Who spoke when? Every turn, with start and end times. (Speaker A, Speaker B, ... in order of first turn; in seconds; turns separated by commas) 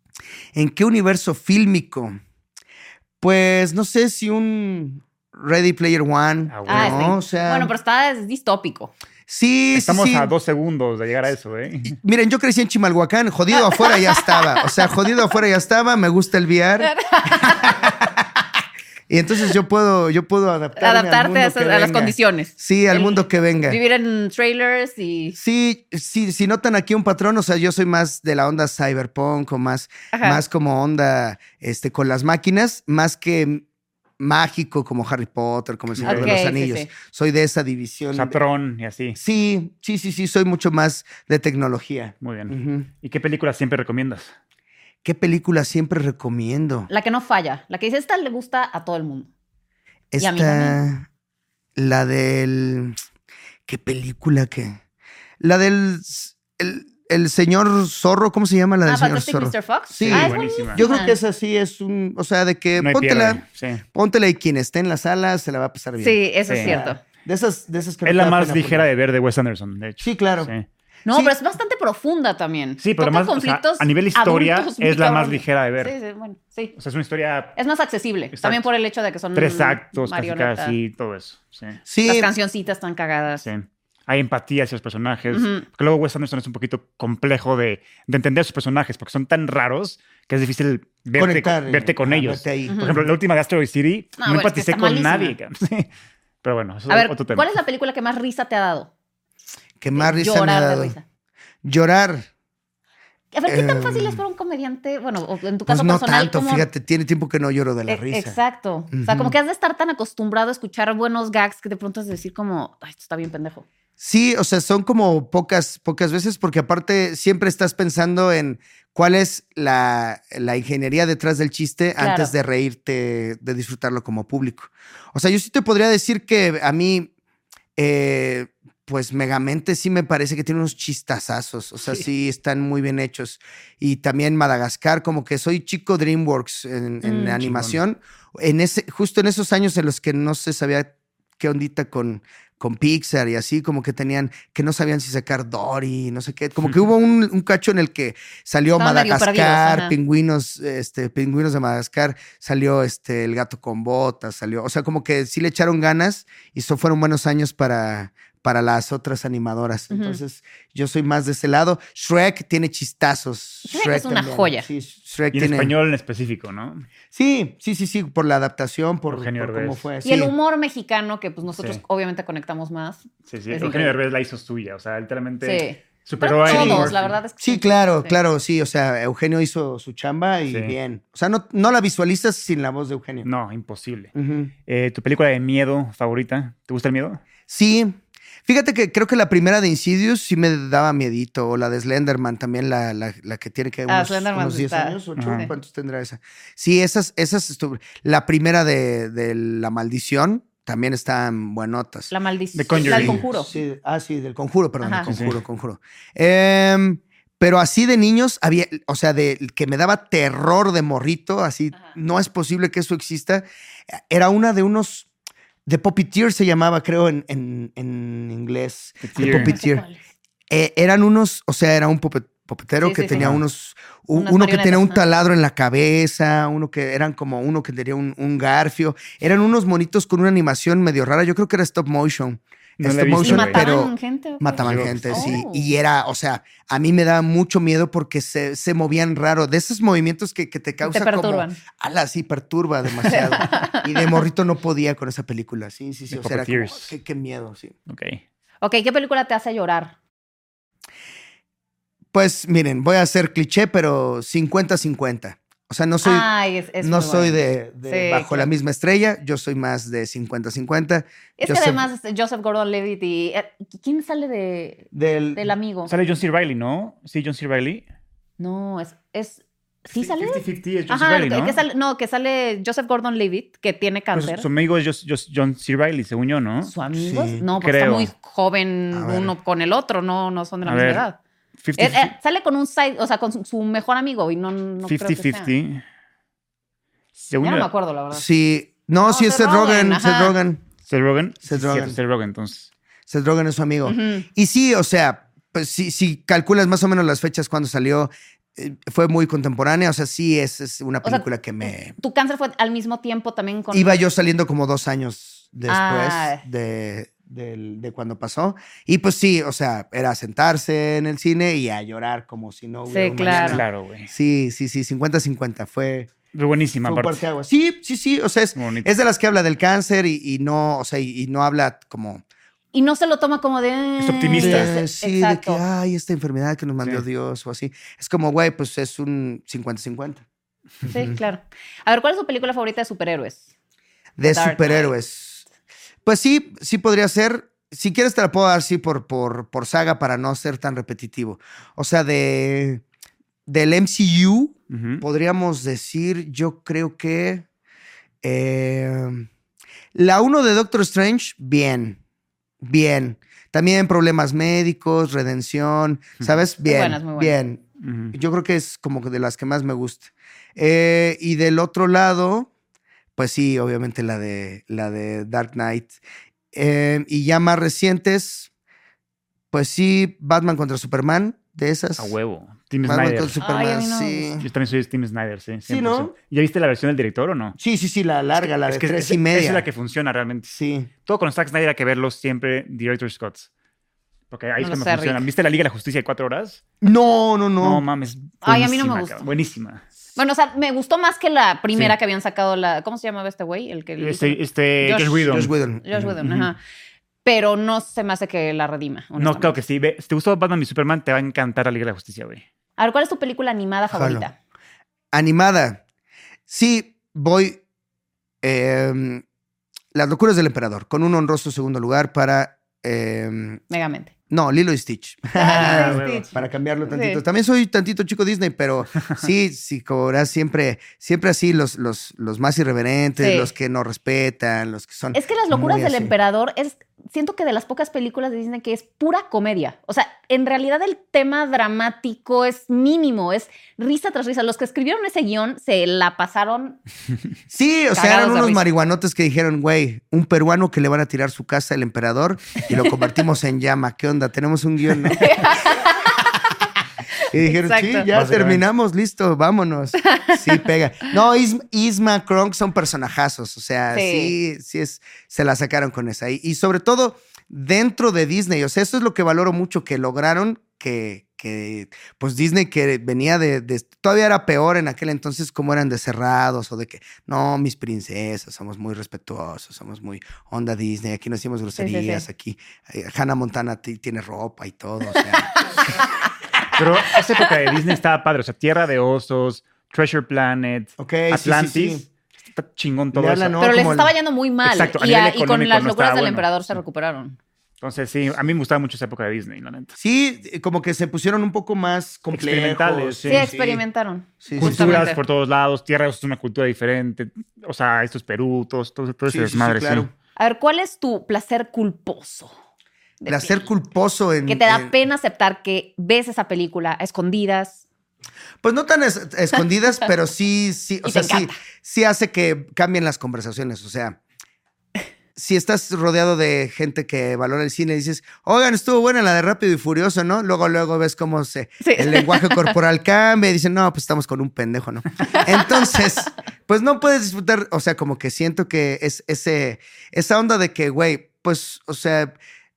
Speaker A: 0.5-2.1, Speaker A: 3.2-7.7, Speaker B: 6.5-7.1, Speaker C: 6.7-8.9, Speaker A: 9.3-10.3, Speaker B: 9.7-11.9, Speaker A: 11.8-18.3, Speaker C: 13.7-14.5, Speaker C: 16.8-17.8, Speaker A: 19.1-23.8, Speaker C: 20.8-25.4, Speaker A: 25.4-33.6, Speaker C: 30.1-30.4, Speaker A: 34.2-38.4, Speaker B: 35.9-36.4, Speaker C: 36.0-36.9, Speaker B: 38.1-39.2, Speaker A: 39.1-42.9, Speaker B: 42.2-44.3, Speaker A: 45.0-46.9, Speaker C: 46.9-49.3, Speaker A: 50.1-51.1, Speaker C: 50.2-50.8, Speaker A: 51.8-53.0, Speaker A: 53.6-54.8, Speaker A: 55.4-68.9, Speaker C: 58.9-61.1, Speaker B: 60.0-60.8, Speaker B: 62.8-63.8, Speaker C: 66.0-67.0, Speaker B: 66.5-66.8, Speaker B: 68.0-70.7, Speaker A: 70.0-70.5, Speaker C: 71.1-76.7, Speaker A: 71.1-71.3, Speaker B: 72.8-75.9, Speaker B: 76.8-77.6, Speaker C: 77.6-80.8, Speaker B: 78.3-78.7, Speaker B: 79.3-81.8, Speaker A: 81.9-82.3, Speaker C: 82.0-83.4, Speaker B: 83.4-95.9, Speaker C: 85.3-85.6, Speaker A: 91.2-93.1, Speaker C: 92.7-92.9, Speaker C: 94.2-95.3, Speaker B: 96.4-97.5, Speaker C: 96.9-98.9, Speaker A: 99.8-100.9, Speaker C: 100.0-101.0, Speaker A: 101.6-102.3, Speaker C: 103.3-106.7, Speaker A: 103.5-104.2, Speaker A: 105.7-108.4, Speaker C: 107.9-113.7, Speaker A: 108.9-109.3, Speaker A: 114.0-127.1, Speaker C: 122.0-122.3, Speaker A: 127.8-165.7, Speaker B: 137.0-137.8, Speaker C: 148.8-150.0, Speaker C: 159.9-160.2, Speaker C: 163.7-164.7, Speaker B: 165.3-166.9, Speaker A: 167.1-170.3, Speaker B: 169.1-169.8, Speaker C: 170.0-173.9, Speaker B: 173.2-177.2, Speaker C: 175.4-178.2, Speaker A: 176.4-183.3, Speaker B: 180.5-180.8, Speaker B: 183.2-184.1, Speaker A: 184.2-184.5, Speaker B: 184.7-187.2, Speaker A: 187.5-202.1, Speaker C: 193.9-195.5, Speaker B: 195.2-195.5, Speaker C: 202.1-203.5, Speaker B: 202.5-203.3, Speaker A: 202.7-213.4, Speaker C: 204.8-205.1, Speaker B: 205.1-205.4, Speaker A: 214.1-215.1, Speaker A: 215.7-219.8, Speaker B: 219.0-219.5, Speaker C: 219.2-220.0, Speaker A: 220.5-247.8, Speaker C: 222.8-223.2, Speaker B: 223.1-223.4, Speaker C: 224.2-225.0, Speaker B: 232.8-233.7, Speaker C: 233.2-235.7, Speaker B: 234.6-235.4, Speaker C: 240.8-241.6, Speaker C: 243.1-244.1, Speaker B: 246.1-246.9, Speaker B: 247.9-248.2, Speaker C: 248.6-249.9, Speaker A: 252.1-256.3, Speaker C: 256.0-258.5, Speaker A: 256.8-261.9, Speaker C: 261.4-265.9, Speaker A: 264.9-265.5, Speaker B: 265.9-267.8, Speaker C: 268.4-274.5, Speaker B: 270.0-271.6, Speaker B: 274.1-276.7, Speaker C: 276.6-281.2, Speaker A: 276.9-277.4, Speaker B: 277.5-278.1, Speaker A: 278.9-279.3, Speaker B: 280.6-281.0, Speaker B: 281.6-282.1, Speaker C: 281.8-285.5, Speaker B: 284.9-285.8, Speaker B: 287.1-287.7, Speaker C: 287.4-288.2, Speaker A: 288.1-290.6, Speaker C: 289.0-290.4, Speaker B: 290.9-292.7, Speaker A: 291.5-292.0, Speaker A: 293.1-301.9, Speaker C: 293.8-294.2, Speaker C: 301.0-304.0, Speaker A: 303.7-316.1, Speaker C: 305.7-306.4, Speaker C: 312.9-313.6, Speaker B: 313.4-314.1, Speaker B: 316.3-317.2, Speaker A: 316.8-322.2, Speaker B: 318.6-318.9, Speaker C: 322.7-325.6, Speaker B: 324.0-324.7, Speaker A: 324.4-330.2, Speaker C: 330.9-333.5, Speaker A: 330.9-331.1, Speaker A: 334.2-335.4, Speaker C: 334.2-334.9, Speaker A: 336.0-342.8, Speaker A: 343.5-347.4, Speaker B: 344.7-345.0, Speaker A: 348.2-349.3, Speaker A: 349.9-352.0, Speaker A: 352.6-362.5, Speaker C: 356.6-357.4, Speaker B: 357.8-358.1, Speaker A: 363.1-366.0, Speaker A: 366.5-368.5, Speaker A: 369.5-372.1, Speaker B: 372.0-373.4, Speaker A: 372.8-374.4, Speaker C: 373.4-374.3, Speaker B: 374.4-377.6, Speaker A: 375.7-376.1, Speaker A: 377.6-379.6, Speaker B: 378.4-380.5, Speaker A: 380.5-380.9, Speaker B: 381.0-383.5, Speaker B: 384.3-386.6, Speaker C: 384.6-385.2, Speaker A: 386.8-387.9, Speaker B: 387.6-389.8, Speaker C: 388.4-389.3, Speaker C: 390.1-396.6, Speaker B: 394.0-395.5, Speaker A: 395.3-396.1, Speaker B: 396.2-396.5, Speaker C: 397.2-399.6, Speaker B: 399.2-402.4, Speaker C: 402.8-404.3, Speaker A: 403.9-404.2, Speaker A: 405.1-405.8, Speaker A: 406.5-407.6, Speaker A: 408.4-409.2, Speaker A: 409.9-413.6, Speaker C: 413.7-414.1, Speaker A: 414.3-426.1, Speaker C: 415.4-416.3, Speaker B: 415.5-416.4, Speaker C: 416.9-417.2, Speaker C: 423.2-423.5, Speaker C: 425.1-436.8, Speaker A: 437.5-445.8, Speaker C: 437.9-438.6, Speaker C: 445.1-446.1, Speaker A: 447.3-475.5, Speaker C: 447.4-448.1, Speaker B: 448.1-448.6, Speaker C: 450.0-450.6, Speaker C: 453.9-454.3, Speaker C: 471.8-472.2, Speaker B: 476.7-483.9, Speaker A: 481.0-482.0, Speaker A: 483.1-484.1, Speaker C: 483.6-487.4, Speaker B: 484.6-486.8, Speaker B: 487.8-489.9, Speaker A: 490.0-493.8, Speaker B: 492.3-493.5, Speaker C: 493.3-495.2, Speaker A: 494.4-495.1, Speaker B: 494.6-500.1, Speaker A: 499.3-500.1, Speaker C: 500.4-502.5, Speaker C: 503.2-503.7, Speaker A: 503.3-504.9, Speaker C: 504.5-507.8, Speaker A: 508.6-514.2, Speaker C: 511.0-511.6, Speaker A: 515.4-532.4, Speaker C: 521.8-522.7